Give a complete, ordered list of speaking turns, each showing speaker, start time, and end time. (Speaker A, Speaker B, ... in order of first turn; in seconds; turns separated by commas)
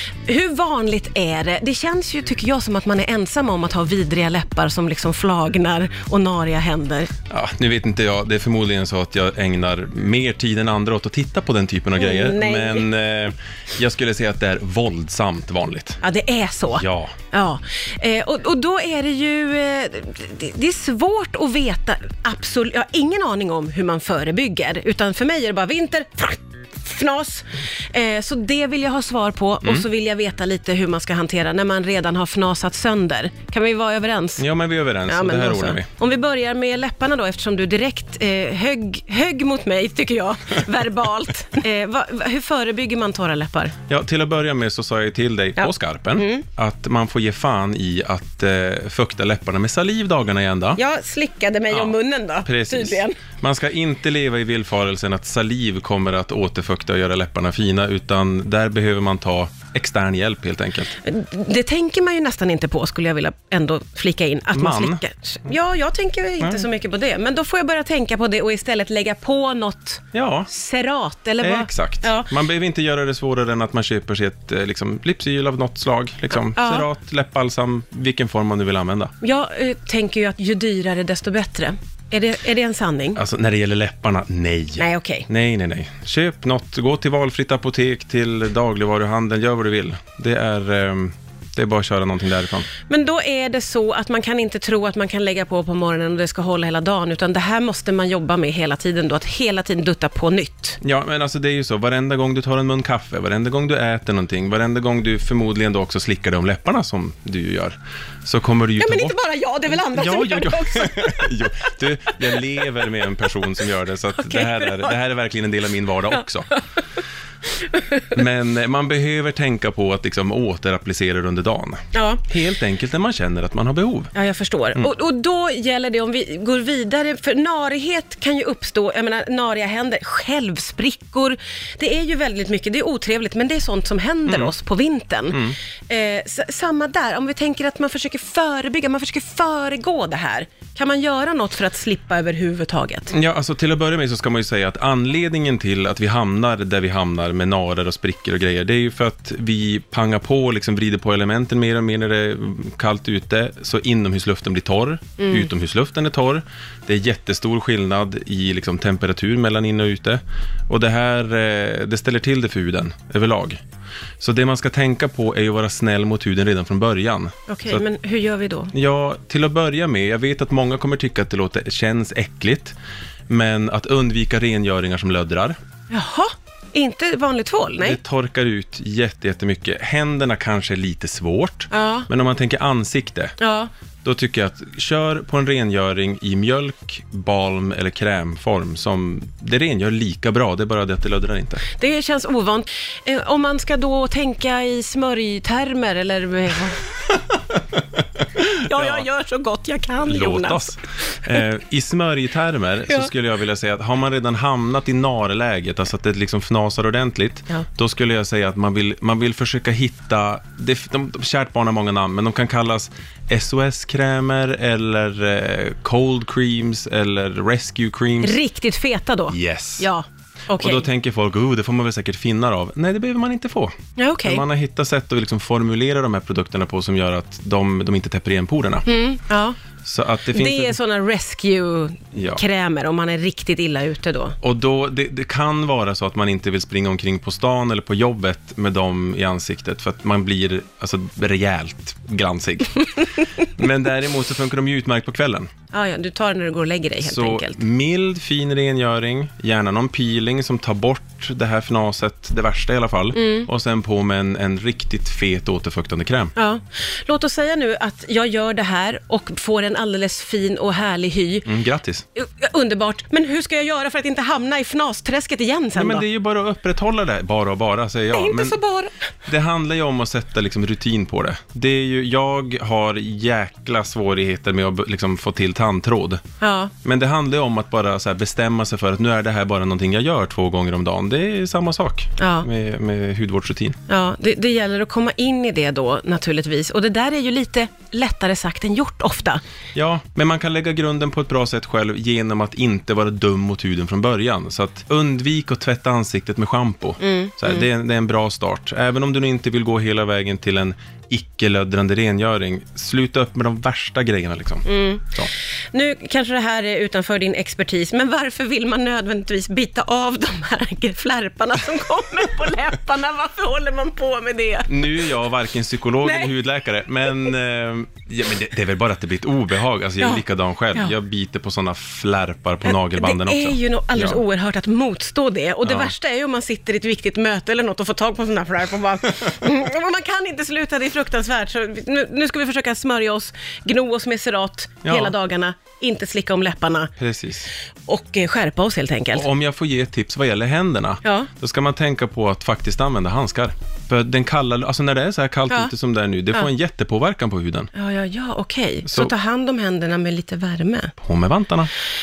Speaker A: 0.2-7.1, Speaker B: 7.3-16.0, Speaker A: 12.0-12.9, Speaker A: 16.0-34.4, Speaker B: 16.7-17.1, Speaker B: 34.4-35.9, Speaker A: 35.1-43.7, Speaker B: 43.9-50.8, Speaker A: 45.6-46.5, Speaker A: 50.8-53.2, Speaker B: 51.7-60.9, Speaker A: 61.0-72.3, Speaker B: 64.5-65.0, Speaker B: 70.1-70.5, Speaker B: 71.4-79.1, Speaker A: 76.5-76.9, Speaker A: 79.2-83.2, Speaker B: 83.2-92.7, Speaker A: 84.8-85.3, Speaker A: 92.9-100.8, Speaker B: 100.8-109.2, Speaker A: 108.8-111.3, Speaker B: 109.7-116.5, Speaker A: 114.2-115.0, Speaker A: 117.8-118.0, Speaker B: 118.1-124.1, Speaker A: 121.9-122.2, Speaker A: 124.1-143.1, Speaker B: 143.1-163.6, Speaker A: 155.2-155.5, Speaker B: 164.2-167.8, Speaker A: 167.5-168.7, Speaker B: 168.7-172.8, Speaker B: 173.3-175.6, Speaker A: 175.9-178.0, Speaker B: 177.8-183.3, Speaker A: 181.7-182.1, Speaker A: 183.4-183.7, Speaker B: 184.0-191.6, Speaker A: 191.8-196.9, Speaker B: 197.1-197.8, Speaker B: 198.3-199.0, Speaker A: 198.5-200.8, Speaker B: 200.0-218.3, Speaker A: 218.2-220.8, Speaker B: 219.3-219.9, Speaker B: 220.6-223.7, Speaker A: 223.9-224.4, Speaker B: 224.2-228.8, Speaker A: 228.8-229.6, Speaker B: 229.8-230.8, Speaker A: 230.3-234.3, Speaker B: 232.1-232.4, Speaker B: 234.4-245.5, Speaker A: 245.7-247.6, Speaker B: 247.0-256.3, Speaker A: 253.2-253.5, Speaker A: 256.4-261.5, Speaker B: 261.4-262.1, Speaker A: 262.2-266.1, Speaker B: 265.8-268.6, Speaker A: 268.1-268.9, Speaker B: 269.2-276.2, Speaker A: 276.4-276.7, Speaker B: 276.8-283.8, Speaker A: 282.2-282.5, Speaker A: 283.9-289.4, Speaker B: 289.8-305.3, Speaker A: 297.0-297.7, Speaker A: 304.6-315.1, Speaker B: 314.7-324.2, Speaker A: 316.0-316.3, Speaker A: 322.7-336.9, Speaker B: 325.6-325.9, Speaker B: 334.9-335.1, Speaker B: 337.0-337.5, Speaker A: 337.9-339.2, Speaker B: 339.1-347.7, Speaker A: 341.0-341.3, Speaker A: 347.7-350.9, Speaker B: 348.9-349.1, Speaker B: 351.0-351.7